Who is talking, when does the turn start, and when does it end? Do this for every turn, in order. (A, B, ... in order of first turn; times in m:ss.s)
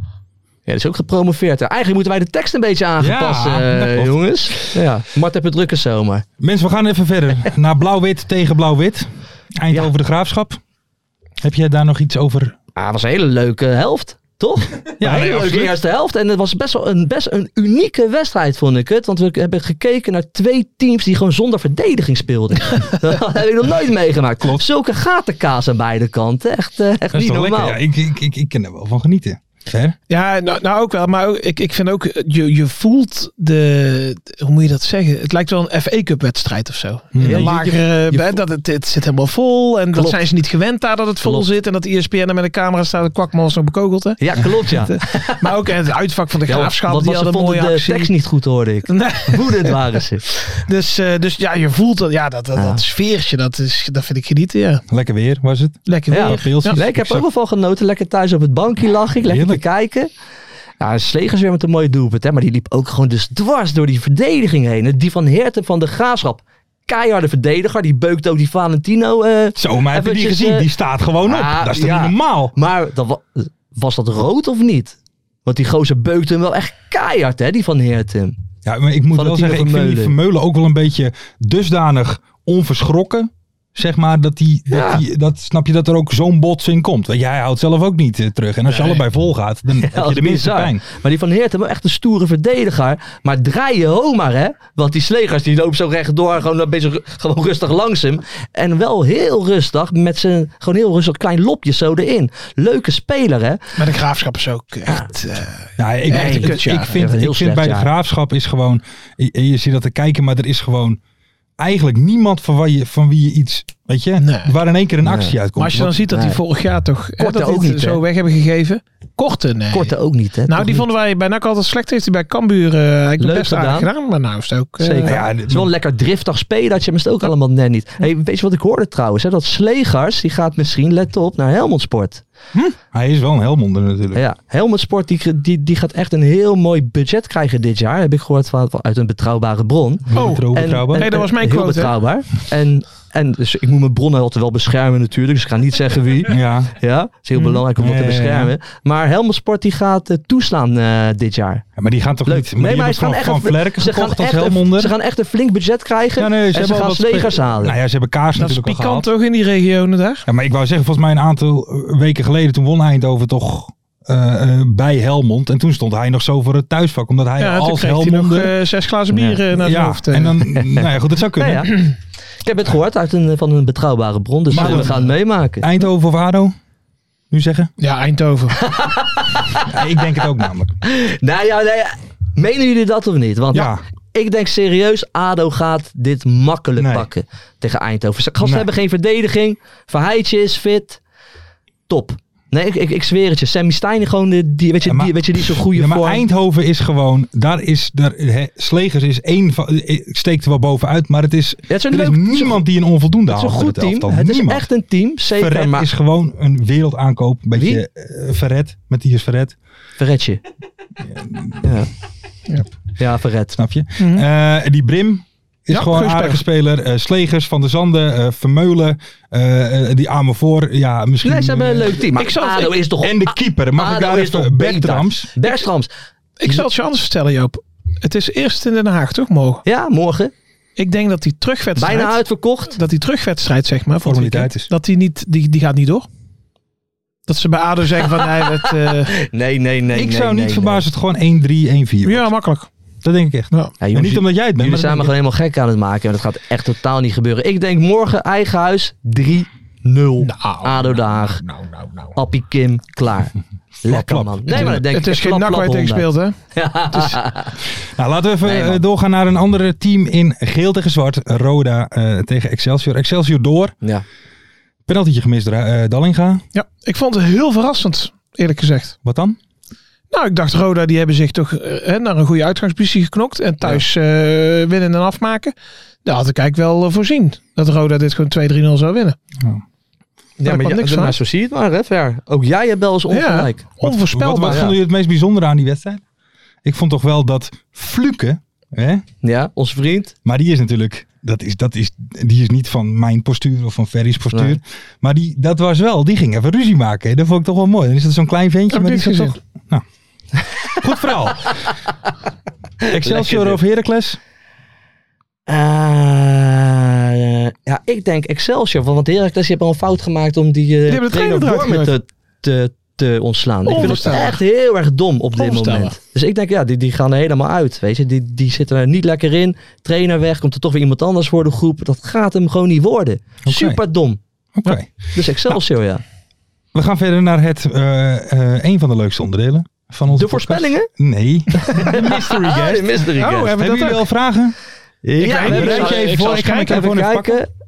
0:00.7-0:06.2 A
0:03.0-0:04.8 B
0:06.4-0:10.6 B
0:11.4-0:12.6 B
0:12.8-0:27.8 A
0:15.0-0:15.8 B
0:27.1-0:30.0 B
0:30.1-0:48.1 C
0:37.1-0:37.5 B
0:37.2-0:38.4 A
0:39.9-0:40.2 A
0:44.2-0:45.4 A
0:46.5-0:50.2 A
0:48.9-0:49.8 C
0:50.5-0:54.8 C
0:52.6-0:52.8 A
0:54.9-0:57.2 B
0:55.9-0:56.8 C
0:56.1-1:00.1 A
0:59.3-0:59.6 B
1:00.8-1:10.7 A
1:09.6-1:12.5 B
1:11.2-1:18.4 A
1:18.6-1:30.8 B
1:19.1-1:20.1 A
1:24.7-1:25.0 A
1:29.8-1:43.6 A
1:43.8-1:47.0 C
1:45.8-1:51.0 B
1:46.1-1:47.9 A
1:51.6-1:56.0 B
1:54.2-1:54.5 C
1:55.0-1:55.3 A
1:55.6-1:59.9 C
1:56.1-1:56.4 A
1:57.2-1:58.0 A
1:59.7-2:00.9 A
2:00.5-2:05.2 C
2:03.2-2:03.9 A
2:04.8-2:12.2 A
2:05.0-2:05.7 B
2:12.9-2:14.2 B
2:14.1-2:31.6 A
2:20.1-2:21.1 B
2:20.1-2:21.9 C
2:26.3-2:26.8 B
2:27.8-2:28.5 B
2:31.8-2:34.9 B
2:32.2-2:37.8 A
2:36.2-2:39.1 B
2:38.4-2:40.3 C
2:40.3-2:48.5 B
2:47.4-2:50.4 C
2:49.5-2:51.7 B
2:51.4-2:51.9 A
2:52.4-2:55.6 A
2:54.5-2:55.1 B
2:54.6-2:54.9 C
2:55.6-2:56.5 B
2:57.3-2:57.7 B
2:57.8-2:58.6 C
2:58.6-2:59.7 A
2:59.6-3:00.7 B
3:00.8-3:11.0 A
3:03.5-3:03.8 B
3:06.8-3:07.1 B
3:08.4-3:08.7 B
3:11.9-3:16.2 A
3:14.8-3:24.7 B
3:21.7-3:22.6 A
3:23.3-3:25.9 A
3:25.3-3:29.6 B
3:27.5-3:27.8 A
3:30.0-3:30.4 A
3:31.0-3:31.6 B
3:31.6-3:31.9 A
3:33.0-3:33.6 A
3:33.6-3:42.0 B
3:34.0-3:34.2 C
3:35.7-3:36.4 C
3:41.2-3:45.9 A
3:42.1-3:42.8 C
3:43.0-3:45.3 B
3:46.4-3:49.6 C
3:49.6-3:50.3 A
3:50.8-3:56.1 C
3:51.8-3:52.8 A
3:54.0-3:54.7 B
3:57.3-3:59.2 C
3:59.1-4:00.8 A
3:59.9-4:02.3 B
4:02.0-4:02.7 C
4:03.0-4:05.1 B
4:03.8-4:11.4 A
4:10.2-4:12.1 C
4:12.1-4:13.3 A
4:13.8-4:14.8 B
4:13.8-4:17.6 A
4:14.5-4:16.4 C
4:18.0-4:23.8 B
4:18.4-4:18.8 A
4:24.9-4:26.4 B
4:26.5-4:29.0 C
4:29.0-4:29.4 B
4:30.1-4:35.5 C
4:36.0-4:39.2 C
4:40.4-4:43.7 A
4:40.4-4:41.2 C
4:43.1-4:44.7 C
4:43.8-4:46.0 B
4:44.5-4:44.7 A
4:46.6-4:49.0 B
4:49.2-4:50.1 A
4:50.2-4:59.8 B
4:58.7-4:59.4 C
5:00.6-5:01.6 B
5:02.8-5:03.6 A
5:02.9-5:04.2 B
5:05.5-5:24.2 A
5:10.9-5:11.9 C
5:13.6-5:14.4 C
5:15.4-5:16.0 C
5:23.4-5:23.8 B
5:24.6-5:24.9 B
5:25.1-5:26.0 A
5:26.7-5:33.0 B
5:30.1-5:30.9 A
5:31.6-5:33.5 A
5:33.2-5:34.1 C
5:33.6-5:34.6 B
5:35.0-5:37.5 A
5:35.2-5:36.9 C
5:35.4-5:37.4 B